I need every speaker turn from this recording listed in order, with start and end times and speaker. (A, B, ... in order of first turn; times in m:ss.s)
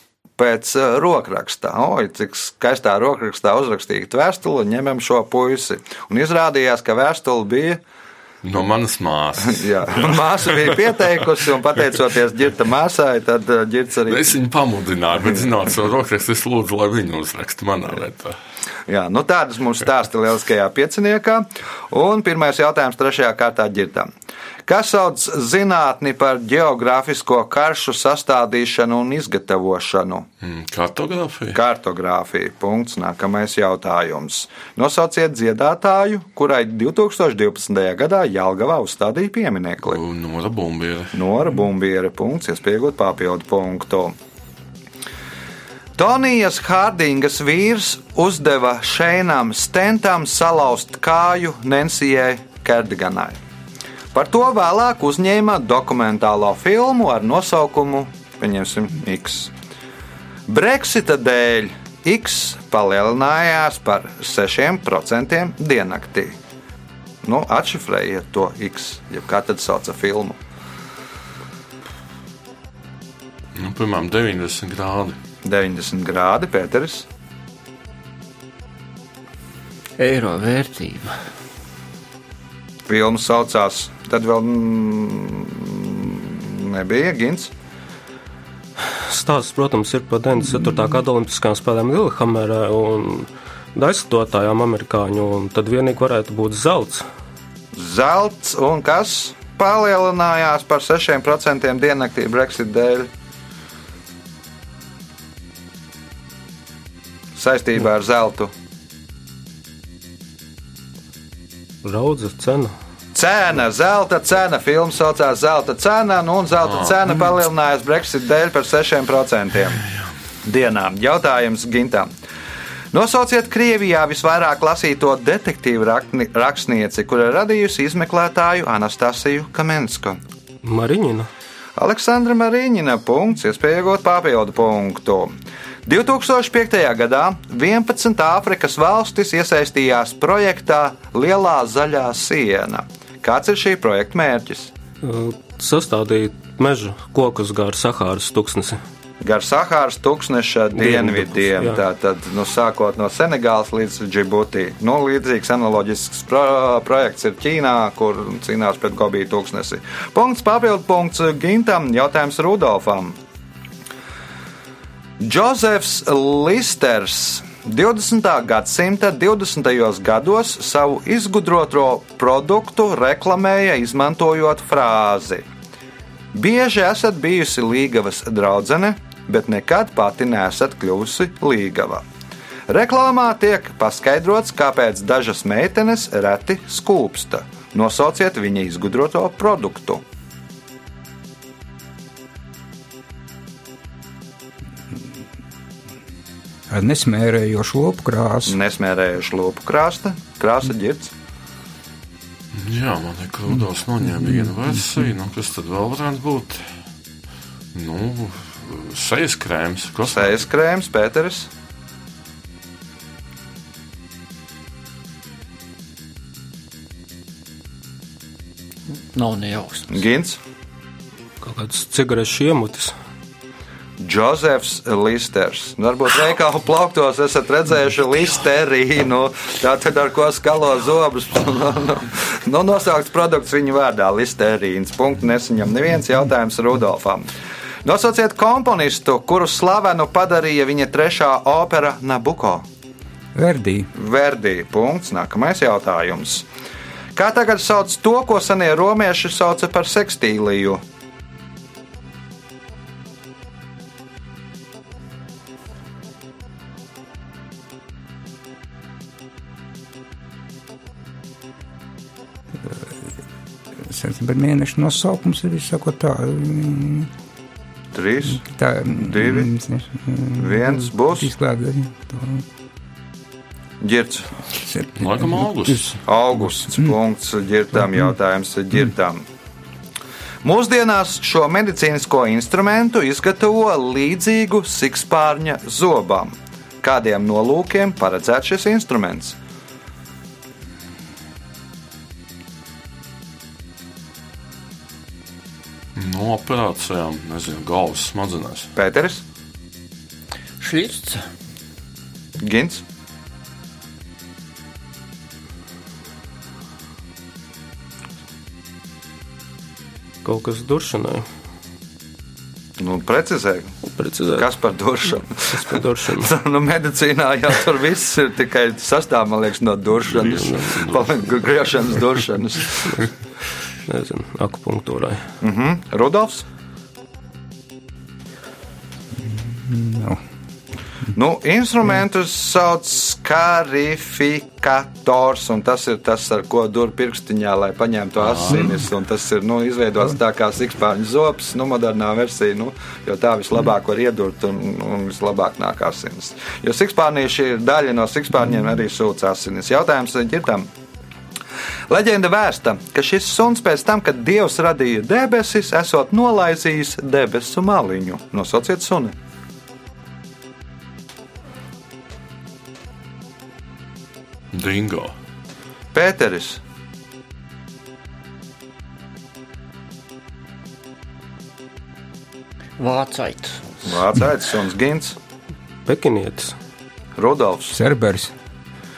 0:00.4-0:07.8 A
0:08.4-0:10.9 B
0:09.5-0:14.3 A
0:14.0-0:18.4 B
0:18.9-0:24.1 A
0:24.7-0:30.3 A
0:30.4-0:31.6 B
0:31.5-0:40.0 A
0:39.8-0:41.2 B
0:41.1-0:44.1 A
0:46.0-0:53.4 A
0:54.1-0:59.5 A
1:00.5-1:06.4 A
1:07.2-1:10.4 A
1:13.5-1:15.2 B
1:15.4-1:17.0 A
1:20.0-1:21.1 C
1:22.9-1:27.5 A
1:28.8-1:37.0 D
1:37.7-1:43.1 A
1:47.4-1:48.5 A
1:51.8-1:52.7 D
1:53.1-1:59.8 A
2:00.4-2:02.1 A
2:02.9-2:10.2 A
2:10.6-2:11.3 D
2:11.8-2:15.3 A
2:15.8-2:24.7 A
2:25.0-2:28.8 D
2:29.2-2:43.1 A
2:30.8-2:31.8 D
2:45.2-2:55.4 A
2:56.3-3:02.0 A
3:02.7-3:10.0 A
3:16.7-3:18.6 E
3:18.5-3:21.1 A
3:22.5-3:26.7 B
3:27.7-3:30.4 B
3:30.1-3:31.5 A
3:38.9-3:40.0 C
3:39.9-3:40.4 A
3:41.4-3:42.9 D
3:44.0-3:57.3 A
3:57.8-4:02.6 A
4:03.3-4:03.9 E
4:03.9-4:06.4 A
4:07.2-4:10.8 A
4:22.6-4:23.1 E
4:23.8-4:27.1 E
4:27.9-4:29.5 A
4:28.3-4:32.4 E
4:30.4-4:31.3 A
4:33.8-4:34.3 A
4:34.6-4:35.9 E
4:35.0-4:36.0 B
4:36.0-4:39.2 A
4:40.4-4:49.4 A
4:55.9-4:58.7 B
4:58.8-4:59.2 A
5:00.6-5:01.2 C
5:02.4-5:02.8 A
5:10.2-5:11.2 D
5:12.8-5:13.7 A
5:13.9-5:14.5 D
5:14.4-5:23.1 A
5:15.5-5:16.3 D
5:20.1-5:21.2 B
5:23.9-5:25.2 D
5:25.4-5:26.4 A
5:29.2-5:30.2 E
5:31.1-5:50.7 A
5:38.2-5:38.8 B
5:51.9-5:59.1 A
6:04.5-6:05.1 B
6:05.9-6:06.6 A
6:12.8-6:14.0 C
6:13.8-6:15.2 A
6:15.8-6:16.6 D
6:17.2-6:17.8 A
6:17.7-6:18.3 E